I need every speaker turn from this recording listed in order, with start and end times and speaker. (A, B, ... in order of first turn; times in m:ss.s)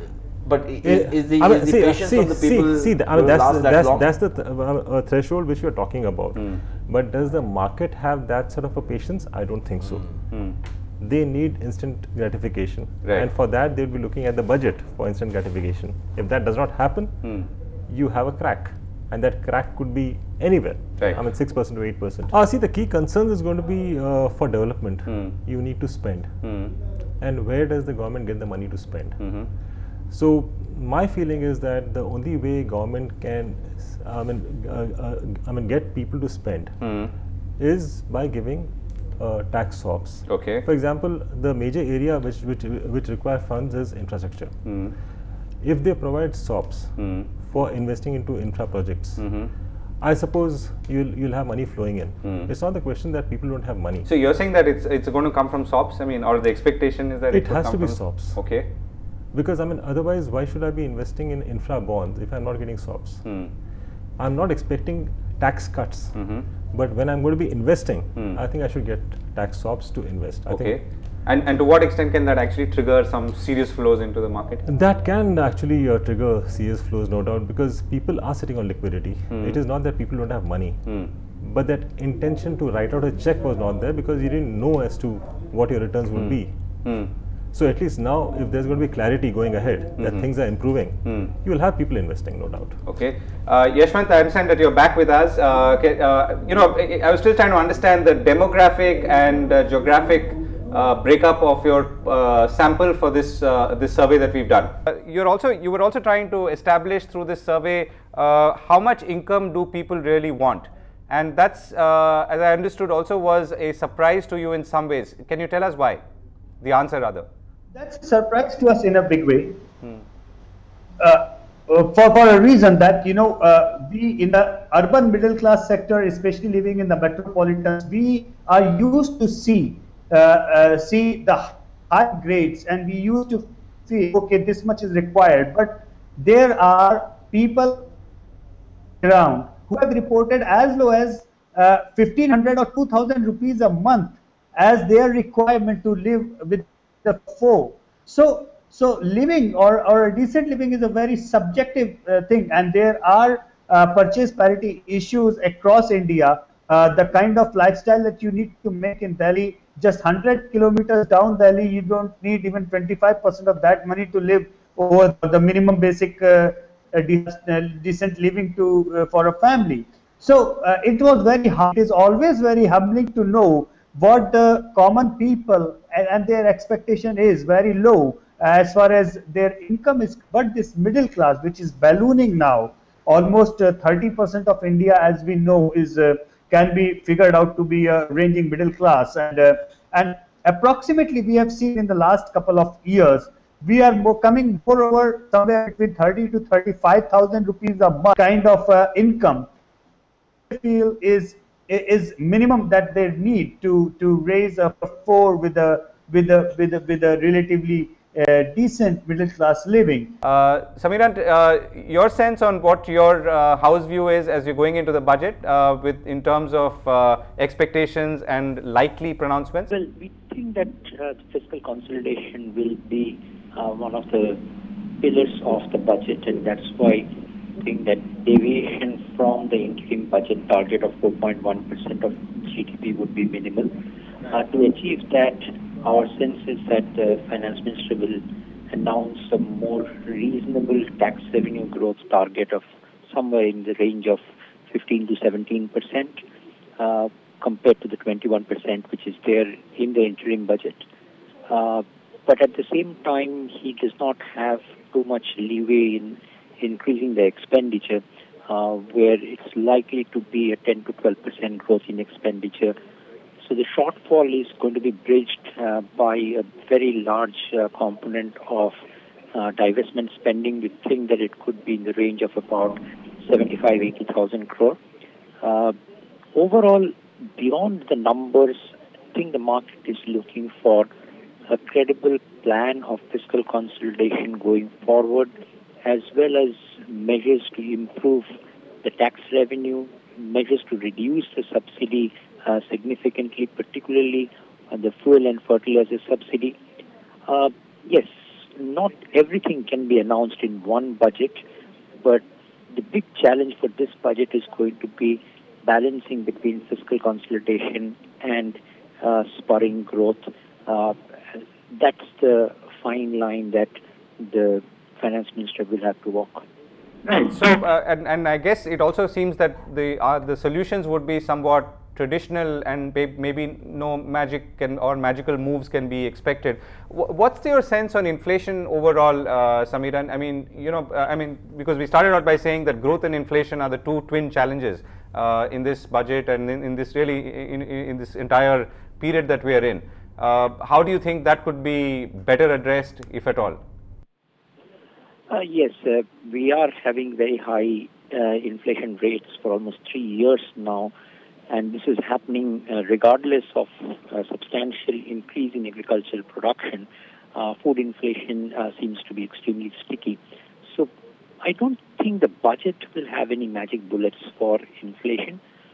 0:00.4-0:04.0 A
0:00.8-0:10.0 B
0:11.0-0:17.2 B
0:17.9-0:26.3 B
0:25.1-0:25.4 C
0:26.4-0:26.8 C
0:27.2-0:29.2 B
0:29.2-0:29.5 C
0:30.1-0:36.8 B
0:36.8-0:37.1 C
0:37.6-0:44.5 B
0:40.3-0:40.6 C
0:44.7-0:45.0 C
0:45.6-0:49.2 B
0:47.0-0:47.3 C
0:49.2-0:49.5 C
0:50.0-0:54.1 B
0:52.2-0:52.5 C
0:54.1-0:58.7 C
0:57.3-0:58.4 B
0:59.3-1:03.2 B
1:03.2-1:03.5 C
1:04.2-1:06.2 B
1:06.2-1:06.5 C
1:06.7-1:10.8 B
1:10.5-1:14.6 C
1:14.7-1:20.8 B
1:19.3-1:19.6 C
1:21.4-1:26.6 B
1:26.2-1:27.1 C
1:27.5-1:32.8 B
1:30.0-1:30.2 C
1:32.9-1:56.0 C
1:56.6-1:57.3 C
1:57.8-1:59.6 D
2:01.0-2:17.9 D
2:19.0-3:19.5 D
3:20.5-3:30.2 D
3:30.2-3:39.7 C
3:39.7-3:44.4 E
3:45.0-3:53.7 E
3:54.3-4:06.2 E
4:06.8-4:10.8 E
4:11.5-4:22.8 E
4:23.4-4:28.8 E
4:29.3-4:34.8 E
4:35.4-4:35.8 E
4:36.4-4:40.9 E
4:41.5-4:45.3 E
4:45.8-4:48.3 E
4:48.8-4:56.6 E
4:57.3-5:01.4 E
5:02.0-5:16.4 E
5:17.1-5:43.6 C
5:45.3-5:50.9 E
5:51.5-6:00.9 E
6:01.4-6:05.4 E